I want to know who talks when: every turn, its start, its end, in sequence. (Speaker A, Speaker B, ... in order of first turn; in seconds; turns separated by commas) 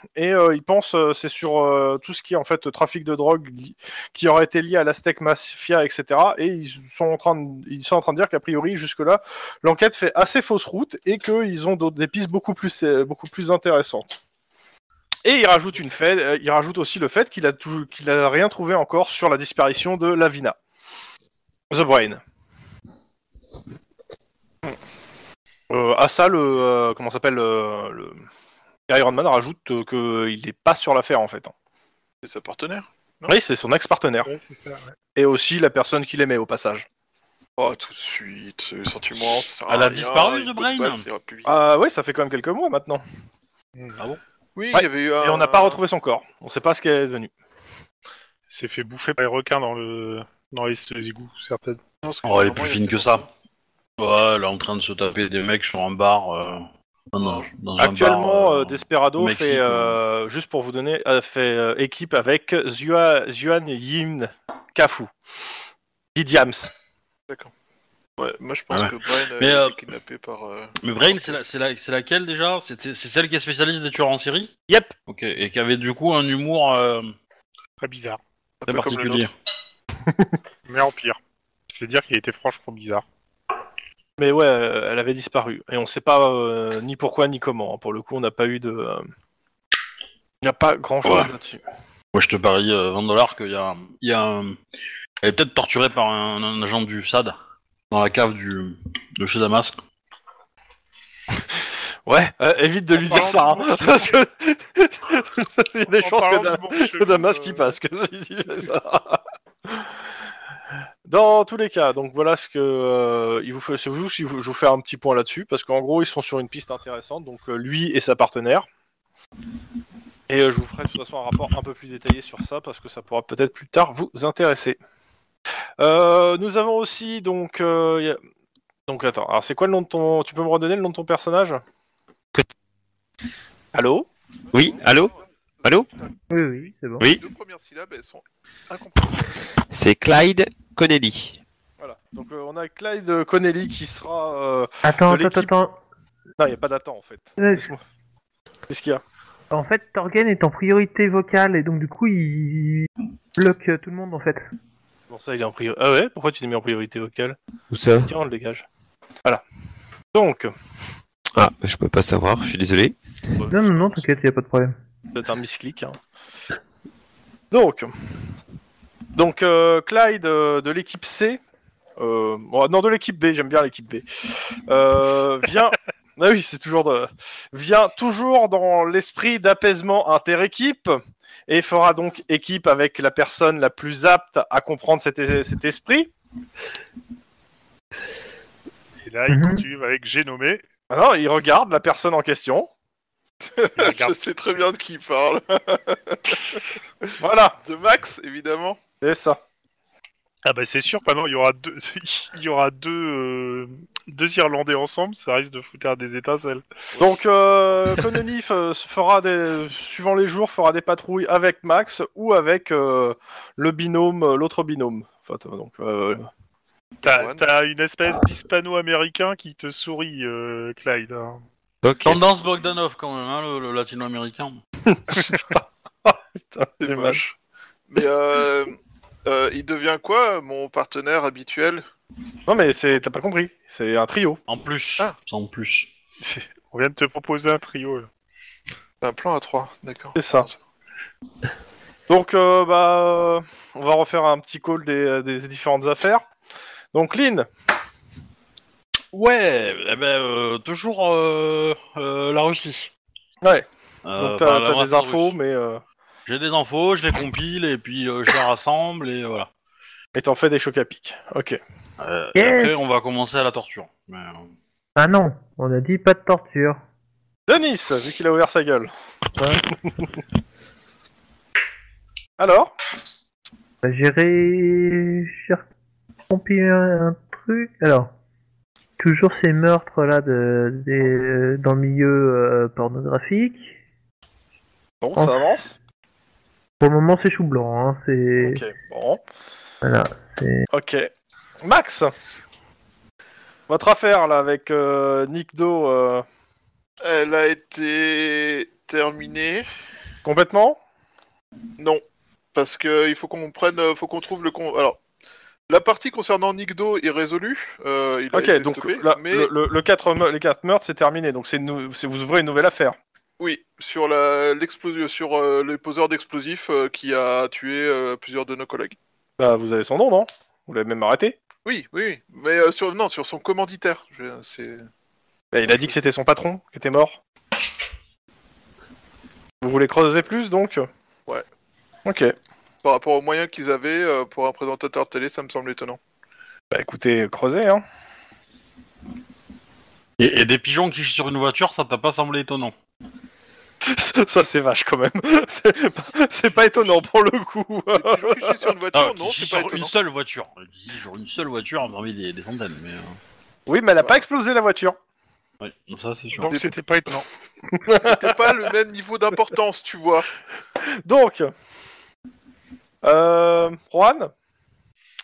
Speaker A: 0.1-14.1, Speaker A: 15.2-20.6, Speaker A: 21.7-22.2, Speaker A: 25.7-28.2, Speaker A: 28.9-31.5, Speaker B: 32.2-33.3, Speaker A: 33.3-34.3, Speaker C: 34.2-35.0, Speaker A: 35.1-36.9, Speaker B: 37.6-41.6, Speaker D: 39.7-41.1, Speaker A: 41.5-43.0, Speaker B: 44.5-45.8, Speaker A: 44.7-47.3, Speaker C: 48.5-51.8, Speaker B: 52.0-53.3, Speaker D: 52.2-53.2, Speaker D: 54.0-60.0, Speaker B: 57.2-57.5, Speaker A: 57.8-65.1, Speaker A: 66.1-66.7, Speaker B: 68.2-71.4, Speaker D: 68.7-69.8, Speaker D: 70.8-74.5, Speaker A: 74.7-74.9, Speaker D: 75.1-77.1, Speaker C: 77.8-78.2, Speaker B: 78.6-79.3, Speaker D: 78.7-79.3, Speaker C: 80.7-81.2, Speaker C: 81.7-83.0, Speaker A: 84.2-89.0, Speaker A: 90.4-91.6, Speaker D: 91.0-91.3, Speaker D: 92.1-94.6, Speaker D: 95.2-97.4, Speaker D: 97.9-99.8, Speaker A: 102.0-109.9, Speaker C: 103.0-104.2, Speaker C: 105.9-107.8, Speaker A: 111.0-118.7, Speaker A: 120.3-124.8, Speaker A: 125.8-128.2, Speaker A: 128.9-131.6, Speaker A: 133.7-134.1, Speaker E: 134.5-135.1, Speaker B: 134.5-136.1, Speaker F: 136.3-137.0, Speaker B: 137.0-139.3, Speaker E: 139.7-141.4, Speaker A: 141.8-145.5, Speaker F: 144.8-145.8, Speaker A: 146.4-147.8, Speaker F: 147.4-147.7, Speaker A: 148.7-149.0, Speaker F: 149.5-154.4, Speaker A: 155.1-157.4, Speaker E: 157.7-158.1, Speaker A: 158.0-158.7, Speaker A: 160.1-160.5, Speaker E: 161.3-163.0, Speaker A: 163.4-164.1, Speaker F: 163.5-164.8, Speaker A: 165.1-166.0, Speaker A: 167.5-167.9, Speaker A: 169.1-171.4, Speaker A: 172.0-174.0, Speaker A: 174.7-186.1, Speaker C: 189.0-190.6, Speaker F: 189.3-189.6, Speaker A: 190.9-192.7, Speaker B: 193.4-197.1, Speaker C: 193.8-194.2, Speaker A: 197.2-197.6, Speaker B: 197.6-198.8, Speaker A: 199.0-199.4, Speaker C: 200.4-206.6, Speaker A: 207.0-216.3, Speaker C: 217.0-221.4, Speaker B: 217.0-217.4, Speaker E: 221.8-222.2, Speaker D: 222.0-224.6, Speaker A: 224.9-227.2, Speaker B: 226.8-227.4, Speaker B: 227.9-231.8, Speaker A: 232.5-234.4, Speaker D: 234.5-235.9, Speaker C: 236.2-238.1, Speaker B: 239.0-240.6, Speaker A: 240.2-240.5, Speaker A: 242.1-246.2, Speaker A: 246.9-247.5, Speaker D: 249.1-252.9, Speaker A: 253.4-255.8, Speaker D: 254.1-255.3, Speaker D: 256.3-259.5, Speaker A: 260.1-261.6, Speaker D: 262.0-264.5, Speaker F: 262.4-262.7, Speaker F: 265.0-266.8, Speaker A: 267.5-268.9, Speaker A: 272.4-272.7, Speaker F: 273.8-275.6, Speaker F: 276.3-278.1, Speaker F: 279.0-283.7, Speaker A: 285.0-285.8, Speaker F: 286.8-288.6, Speaker A: 288.4-289.2, Speaker F: 289.8-290.7, Speaker A: 290.7-291.1, Speaker A: 291.6-292.1, Speaker A: 293.7-296.2, Speaker B: 297.0-299.7, Speaker A: 300.2-300.8, Speaker B: 302.5-305.0, Speaker B: 305.7-309.5, Speaker A: 308.3-313.0, Speaker B: 313.4-319.0, Speaker A: 319.4-321.4, Speaker B: 321.6-324.9, Speaker A: 325.5-327.2, Speaker A: 329.6-330.9, Speaker A: 332.1-332.4, Speaker B: 332.8-336.0, Speaker A: 336.7-337.8, Speaker D: 340.2-342.7, Speaker A: 343.8-348.7, Speaker B: 346.5-347.0, Speaker B: 347.9-349.9, Speaker D: 348.9-353.2, Speaker A: 353.7-355.0, Speaker D: 355.6-356.5, Speaker C: 356.3-357.3, Speaker A: 357.8-358.5, Speaker B: 358.0-360.3, Speaker A: 360.8-361.5, Speaker A: 363.0-364.3